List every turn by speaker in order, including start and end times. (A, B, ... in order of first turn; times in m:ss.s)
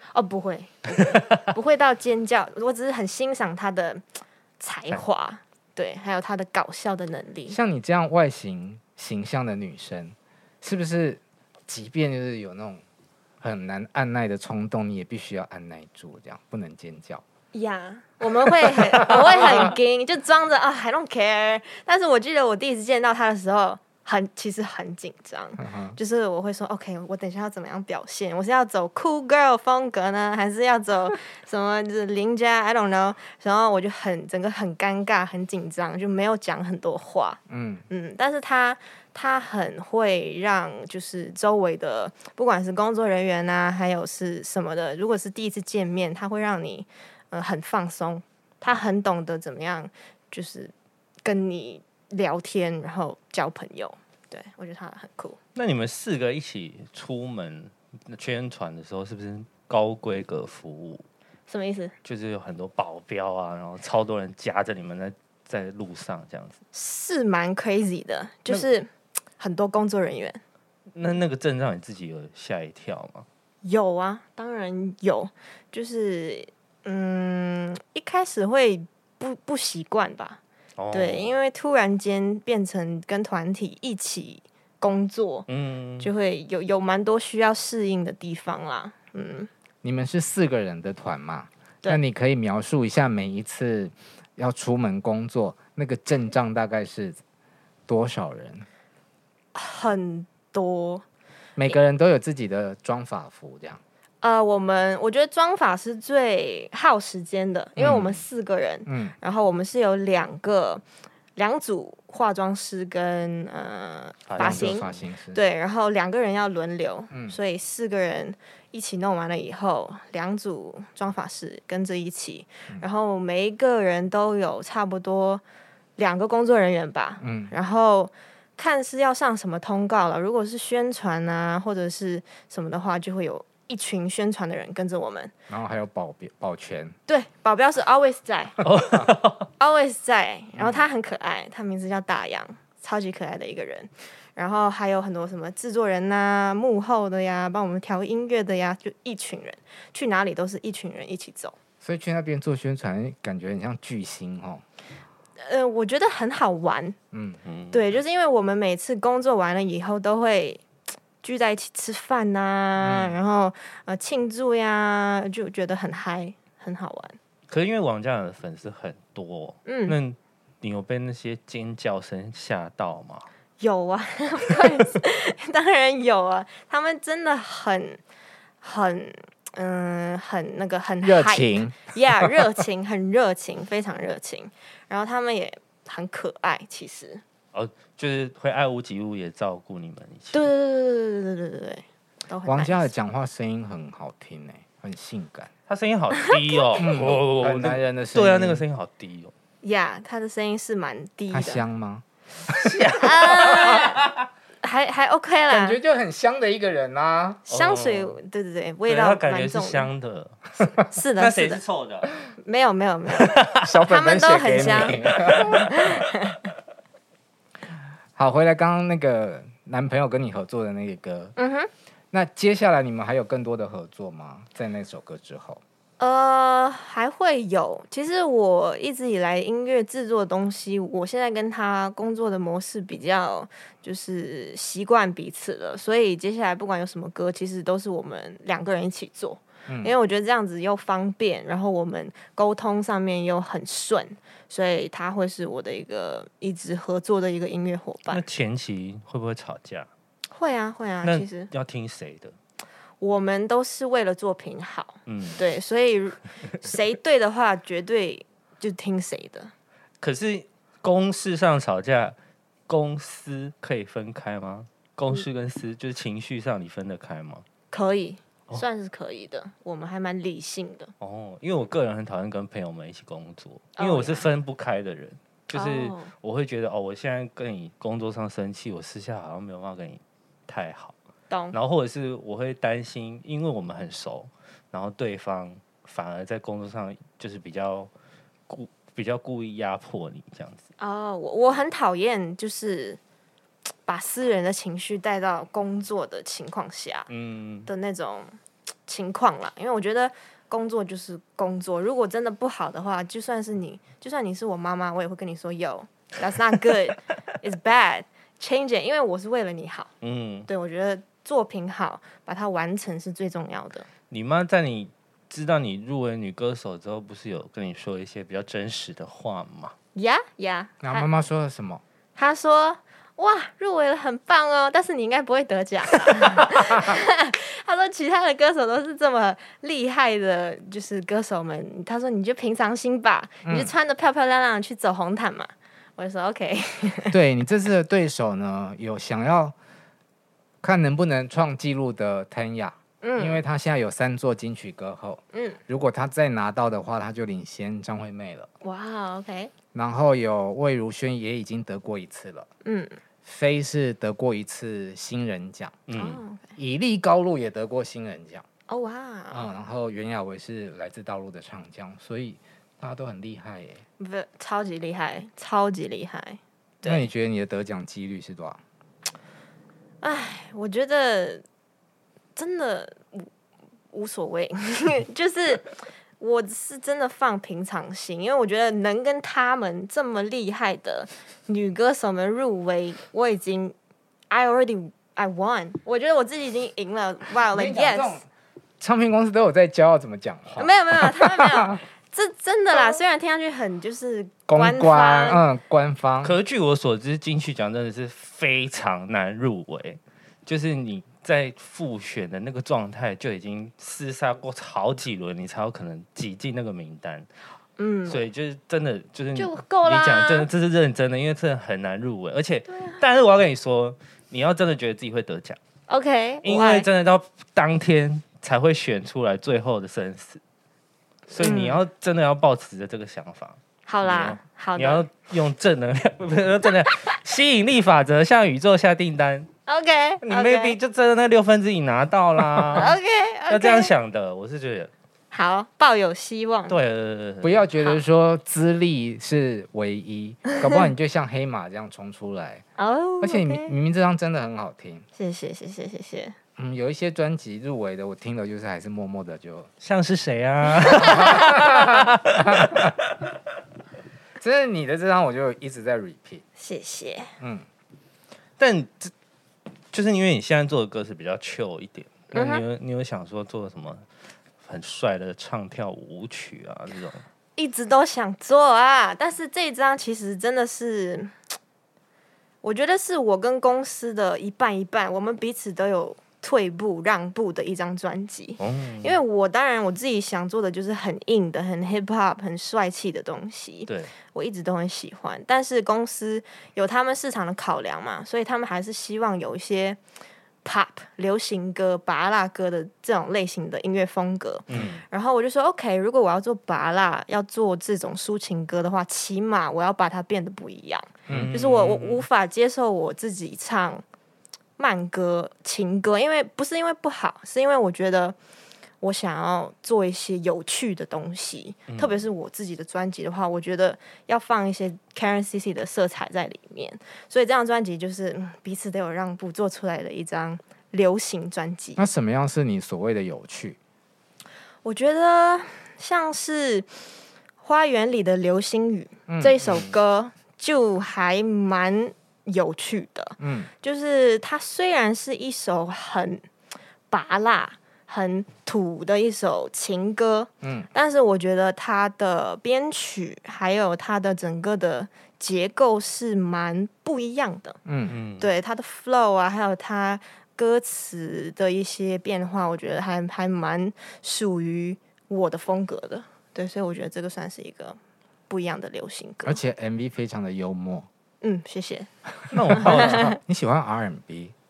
0:00.1-0:07.6 A
0:07.5-0:12.8 B
0:13.4-0:17.2 B
0:17.5-0:50.7 A
0:18.7-0:19.7 B
0:25.6-0:26.0 B
0:37.5-0:37.8 B
0:51.2-0:55.4 A
0:55.5-1:01.0 C
1:01.5-1:01.9 A
1:02.0-1:06.6 C
1:06.7-1:10.4 A
1:10.9-1:13.2 C
1:13.6-1:20.4 A
1:20.8-1:21.4 C
1:20.9-1:25.4 A
1:25.5-1:26.1 C
1:26.0-1:29.5 A
1:29.8-1:37.2 B
1:37.9-1:38.6 B
1:39.5-1:41.0 A
1:41.6-1:43.8 B
1:44.2-1:50.8 A
1:47.8-1:48.2 C
1:48.9-1:49.1 B
1:51.4-2:05.4 A
1:54.3-1:55.0 C
1:54.4-1:55.4 B
2:06.0-2:15.3 A
2:07.2-2:07.5 B
2:15.5-2:16.9 B
2:17.1-2:18.6 A
2:18.6-2:19.5 C
2:19.6-2:31.5 A
2:31.8-2:34.6 B
2:35.4-2:37.0 A
2:37.1-2:37.4 B
2:37.4-2:37.8 C
2:37.7-2:40.6 A
2:41.2-2:47.2 A
2:42.8-2:43.1 B
2:47.5-2:53.3 C
2:49.6-2:50.0 A
2:53.6-2:58.0 A
2:58.6-3:07.2 A
3:01.0-3:01.9 B
3:07.5-3:10.5 C
3:10.3-3:12.9 A
3:12.4-3:15.5 B
3:15.7-3:19.3 C
3:16.8-3:18.6 B
3:19.6-3:21.6 A
3:21.3-3:22.8 B
3:22.5-3:24.2 C
3:23.0-3:24.0 A
3:24.6-3:25.8 A
3:25.5-3:27.5 B
3:27.5-3:29.9 A
3:27.5-3:28.1 C
3:28.9-3:30.6 C
3:30.6-3:31.6 A
3:31.1-3:32.1 C
3:32.4-3:36.4 A
3:33.2-3:33.7 C
3:33.6-3:36.1 B
3:38.2-3:41.3 B
3:41.4-3:41.7 A
3:42.1-3:45.6 B
3:46.0-4:08.2 A
3:59.7-3:59.9 B
4:08.1-4:09.9 C
4:10.3-4:11.5 A
4:11.0-4:12.3 C
4:13.0-4:19.5 A
4:15.0-4:15.4 C
4:20.0-4:22.1 C
4:22.7-4:27.4 C
4:27.7-4:30.9 A
4:31.0-4:40.9 C
4:33.8-4:34.3 A
4:35.5-4:36.1 A
4:41.3-4:41.6 A
4:41.5-4:47.9 C
4:48.5-4:50.6 C
4:50.8-4:53.0 A
4:53.8-4:57.1 A
4:57.1-4:57.7 C
4:57.6-4:58.3 A
4:58.9-5:09.9 A
5:10.0-5:10.5 C
5:10.5-5:13.9 A
5:14.1-5:19.7 C
5:19.9-5:21.1 A
5:20.8-5:21.8 B
5:22.2-5:37.2 A
5:33.4-5:33.7 B
5:37.1-5:39.5 B
5:40.6-5:48.5 B
5:43.0-5:43.4 A
5:45.3-5:45.6 A
5:48.6-5:49.5 A
5:49.7-5:52.5 B
5:52.6-5:53.0 A
5:53.2-5:55.8 B
5:55.9-5:56.2 C
5:55.9-5:56.5 A
5:56.6-5:58.4 B
5:58.7-5:59.5 A
5:59.3-6:03.8 B
6:04.0-6:07.0 A
6:06.8-6:08.6 B
6:10.0-6:11.4 A
6:12.4-6:13.3 A
6:13.9-6:23.7 A
6:24.3-6:28.2 A
6:27.5-6:28.2 B
6:28.8-6:31.8 B
6:30.6-6:35.4 A
6:34.5-6:36.4 B
6:36.2-6:47.2 C
6:47.8-6:48.2 A
6:48.1-6:55.6 C
6:49.3-6:50.5 A
6:52.7-6:53.0 A
6:55.9-6:56.9 A
6:56.4-7:00.4 C
7:01.3-7:09.5 C
7:01.4-7:01.8 A
7:03.9-7:05.0 A
7:09.7-7:10.8 A
7:10.2-7:12.9 C
7:12.6-7:12.8 B
7:12.7-7:13.9 A
7:13.5-7:14.9 C
7:15.3-7:16.7 A
7:16.7-7:17.6 C
7:17.4-7:22.6 B
7:20.4-7:20.9 A
7:22.8-7:23.7 A
7:23.2-7:25.0 B
7:25.2-7:26.4 A
7:26.6-7:29.7 B
7:29.8-7:33.0 C
7:31.0-7:32.9 B
7:34.4-7:36.4 B
7:36.6-7:37.3 A
7:37.4-7:37.6 B
7:38.6-7:39.1 C
7:39.9-7:44.0 C
7:42.3-7:42.6 A
7:44.6-7:47.2 C
7:47.6-7:51.3 A
7:52.6-8:10.0 A
7:58.6-7:59.2 C
8:03.9-8:04.1 C
8:10.6-8:24.0 A
8:14.7-8:15.0 C
8:21.3-8:21.5 B
8:21.3-8:22.2 C
8:24.8-8:28.3 A
8:29.0-8:42.0 A
8:31.9-8:32.2 C
8:42.0-8:43.8 B
8:44.8-8:46.9 A
8:47.6-8:56.4 A
8:49.3-8:49.6 B
8:53.4-8:53.7 B
8:57.1-9:07.8 A
9:00.6-9:00.9 B
9:07.8-9:08.2 B
9:08.1-9:08.5 C
9:08.4-9:18.0 A
9:18.5-9:19.6 A
9:19.4-9:21.1 B
9:21.4-9:22.1 A
9:22.5-9:23.3 C
9:22.7-9:24.5 B
9:22.8-9:23.3 A